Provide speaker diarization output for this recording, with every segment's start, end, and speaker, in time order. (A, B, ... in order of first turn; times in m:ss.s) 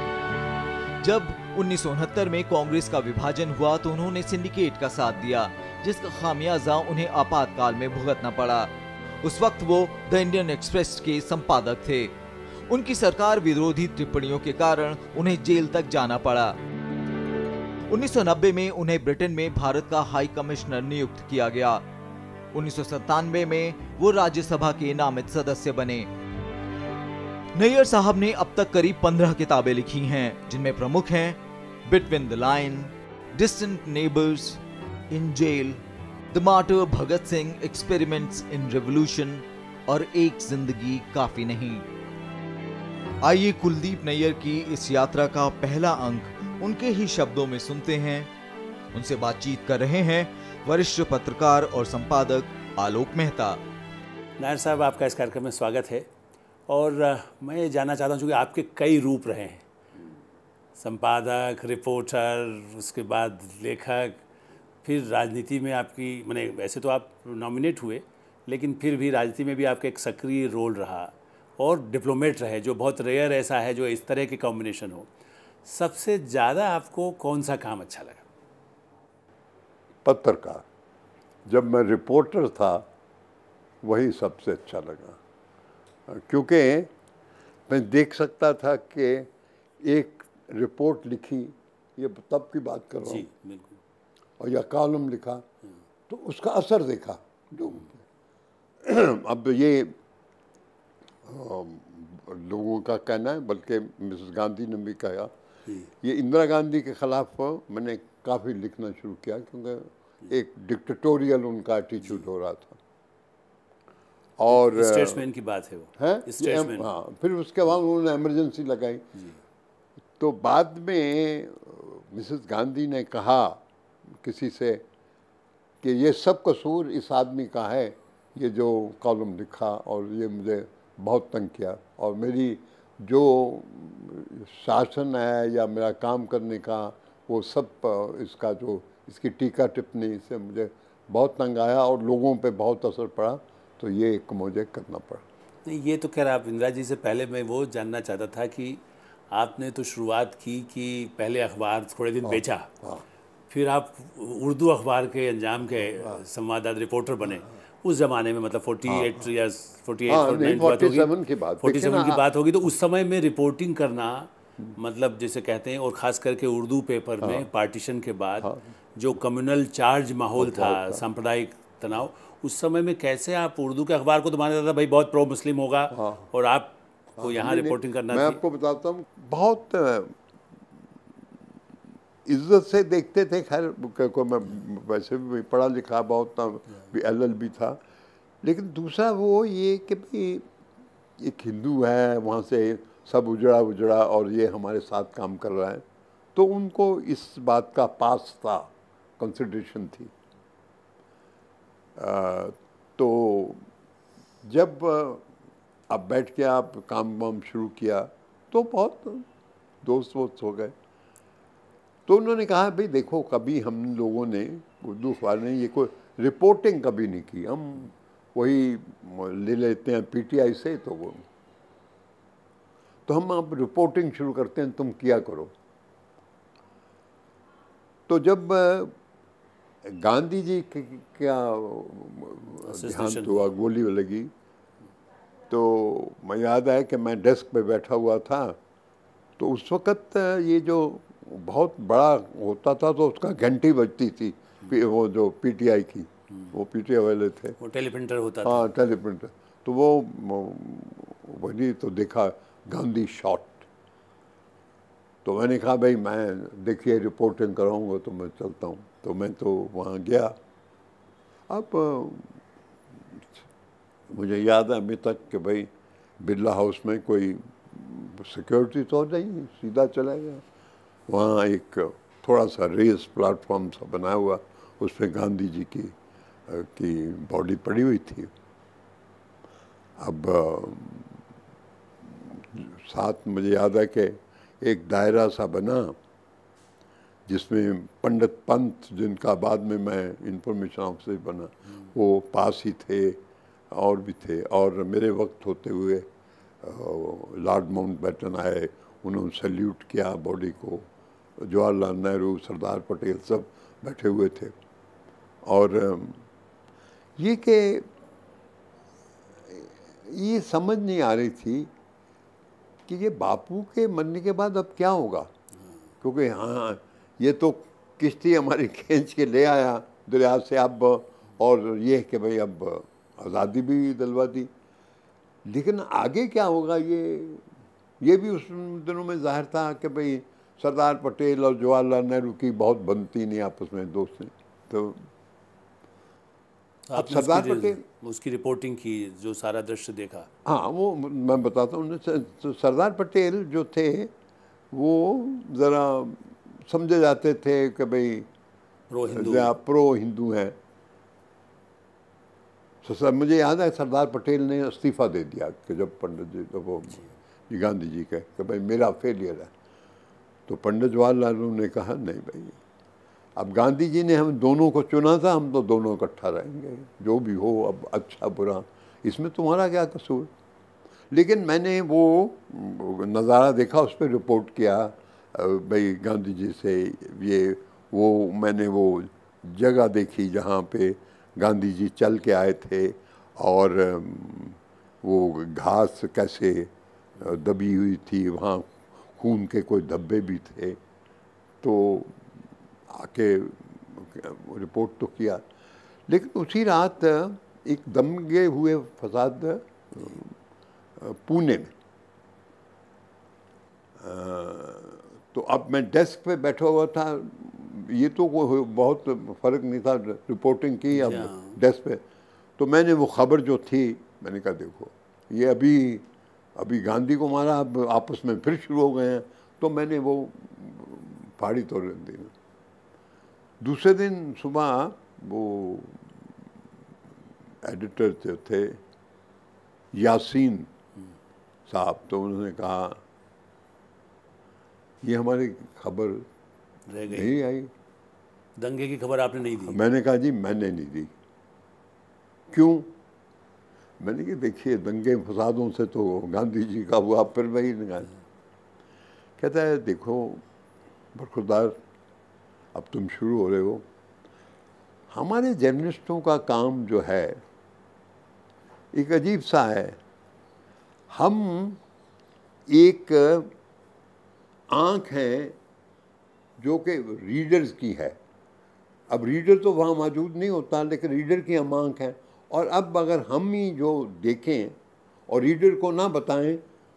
0:01.0-0:12.1 A
0:12.7-0:16.6 A
0:17.9-0:21.8 A
0:22.5-0:26.1 A
0:27.6-0:35.8 A
0:36.3-0:41.9 A
0:43.2-0:48.3 A
0:48.9-0:53.6 A
0:54.4-0:56.1 B
0:56.7-0:59.6 B
1:00.8-1:04.2 B
1:04.8-1:15.1 B
1:15.7-1:18.3 B
1:20.0-1:20.6 C
1:21.5-1:22.9 C
1:23.8-1:25.2 C
1:26.1-1:26.9 C
1:27.7-1:33.3 C
1:33.0-1:33.8 B
1:34.4-1:35.4 C
1:36.1-1:37.9 C
1:38.8-1:40.0 C
1:41.2-1:45.3 C
1:46.0-1:52.8 C
1:54.4-1:55.2 C
1:54.5-1:56.9 B
1:56.0-1:59.0 C
2:00.2-2:03.6 C
2:04.2-2:04.8 C
2:05.8-2:25.2 C
2:25.6-2:32.7 B
2:32.2-2:33.0 C
2:33.5-2:58.4 B
2:38.9-2:39.2 C
2:40.1-2:42.3 C
2:50.4-2:51.0 C
2:55.9-2:56.3 C
2:57.2-3:00.2 C
3:02.2-3:07.8 C
3:08.4-3:10.4 C
3:11.2-3:15.8 C
3:16.4-3:20.1 C
3:22.0-3:23.6 C
3:24.4-3:25.2 C
3:25.9-3:29.3 C
3:29.8-3:30.8 C
3:32.1-3:41.2 C
3:43.1-3:45.5 C
3:48.1-3:49.0 C
3:49.8-3:54.3 C
3:52.7-3:53.5 B
3:55.5-3:58.6 C
3:59.4-4:07.6 C
4:07.6-4:08.6 B
4:08.4-4:13.7 C
4:15.2-4:20.4 C
4:21.5-4:22.4 C
4:23.1-4:23.4 C
4:24.1-4:30.4 C
4:31.1-4:35.9 C
4:36.5-4:38.3 C
4:40.0-4:41.2 C
4:42.0-4:46.0 C
4:47.3-4:56.1 C
4:56.6-5:00.9 C
5:01.4-5:04.6 C
5:05.4-5:06.2 C
5:07.2-5:07.9 C
5:09.4-5:11.7 C
5:12.9-5:15.3 C
5:16.0-5:24.5 C
5:25.4-5:27.4 C
5:28.0-5:35.0 C
5:36.9-5:40.3 B
5:36.9-5:37.8 C
5:40.4-5:44.1 C
5:44.7-5:48.3 C
5:48.9-5:49.5 B
5:49.1-5:50.6 C
5:52.8-5:59.5 C
6:00.5-6:02.6 C
6:03.4-6:10.3 C
6:11.1-6:30.8 C
6:31.6-6:32.3 C
6:32.9-6:35.4 C
6:36.1-6:40.4 C
6:41.0-6:41.7 C
6:44.0-6:52.0 C
6:51.0-6:51.6 B
6:52.6-7:02.3 C
7:03.6-7:06.1 C
7:07.6-7:08.8 C
7:09.9-7:10.7 C
7:11.7-7:13.0 C
7:15.0-7:16.3 C
7:16.9-7:17.3 B
7:17.1-7:17.7 C
7:18.6-7:19.8 B
7:19.6-7:21.1 C
7:22.5-7:22.9 C
7:24.0-7:28.1 C
7:29.4-7:30.4 C
7:31.1-7:31.8 C
7:32.7-7:33.8 C
7:35.1-7:37.4 C
7:38.9-7:40.0 C
7:41.1-7:41.8 C
7:42.7-7:43.5 C
7:44.7-7:45.6 C
7:46.6-7:48.2 C
7:49.1-7:54.8 C
7:55.3-7:56.6 C